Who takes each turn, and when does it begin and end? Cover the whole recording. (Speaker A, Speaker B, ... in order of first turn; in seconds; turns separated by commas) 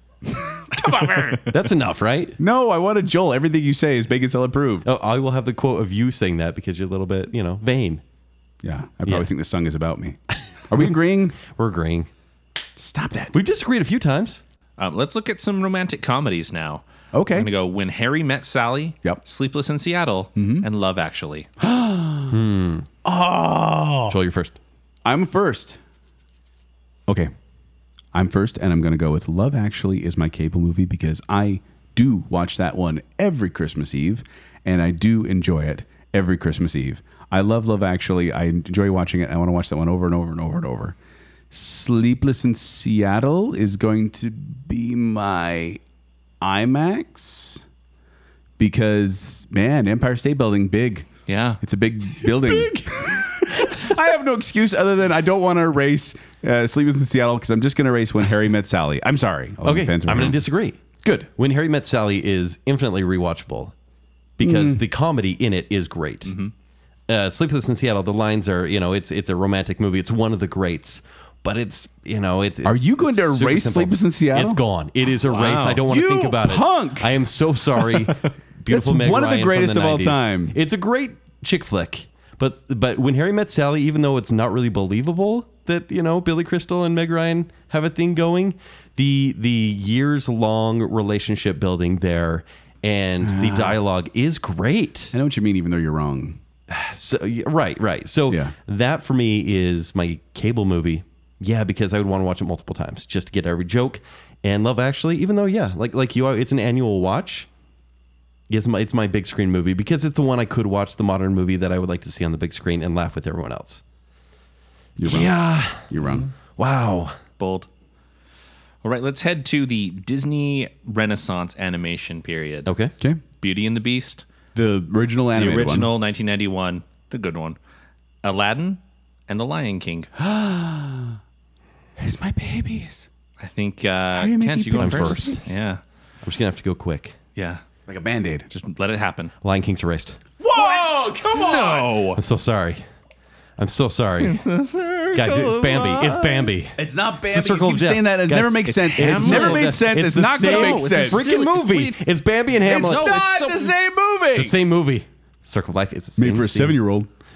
Speaker A: 0.3-1.4, Speaker B: 0.7-1.4, Speaker C: 1.5-2.4, Speaker A: 2.4-4.8, Speaker C: 4.8-8.0, Speaker A: 8.6-11.4, Speaker C: 10.7-12.1, Speaker A: 12.8-13.3, Speaker C: 13.3-14.4, Speaker B: 14.8-21.5, Speaker A: 17.1-17.5, Speaker A: 20.4-20.6, Speaker A: 21.6-22.4, Speaker C: 22.3-22.9, Speaker A: 23.0-24.2, Speaker C: 24.1-24.6, Speaker A: 25.0-25.8, Speaker A: 28.1-40.9, Speaker A: 41.5-45.8, Speaker A: 46.4-47.6, Speaker A: 48.6-51.1, Speaker B: 51.3-51.6, Speaker A: 51.6-60.4, Speaker C: 59.6-60.8, Speaker A: 61.0-61.3, Speaker C: 61.4-63.7, Speaker C: 64.4-66.3, Speaker A: 64.4-64.8, Speaker B: 66.2-66.5, Speaker C: 67.1-95.1, Speaker A: 72.6-74.6, Speaker B: 75.3-75.8, Speaker A: 75.8-77.2, Speaker A: 78.7-80.6, Speaker A: 93.2-93.8, Speaker A: 95.1-96.4, Speaker C: 96.7-107.5, Speaker A: 98.3-98.5, Speaker C: 108.5-113.8, Speaker A: 115.0-116.2, Speaker C: 115.0-115.9, Speaker C: 116.6-117.2, Speaker B: 117.4-117.7, Speaker B: 118.8-122.7, Speaker C: 122.6-122.9, Speaker B: 123.4-124.2, Speaker A: 124.5-125.9, Speaker B: 125.3-127.6, Speaker B: 128.2-130.1, Speaker A: 130.2-131.2, Speaker A: 132.0-133.1, Speaker B: 133.4-135.8, Speaker A: 134.1-135.4, Speaker C: 134.8-135.5, Speaker C: 136.2-137.2, Speaker B: 137.3-137.6, Speaker A: 137.9-138.5, Speaker B: 138.5-139.3, Speaker C: 139.4-140.2, Speaker A: 140.4-142.0, Speaker B: 140.5-142.2, Speaker C: 142.2-142.8, Speaker C: 143.6-144.4, Speaker B: 144.2-146.5, Speaker C: 145.1-146.8, Speaker A: 146.7-151.3, Speaker C: 147.3-153.2, Speaker B: 148.7-152.0, Speaker B: 152.6-153.7, Speaker A: 152.7-154.6, Speaker C: 154.3-156.8, Speaker A: 156.2-157.1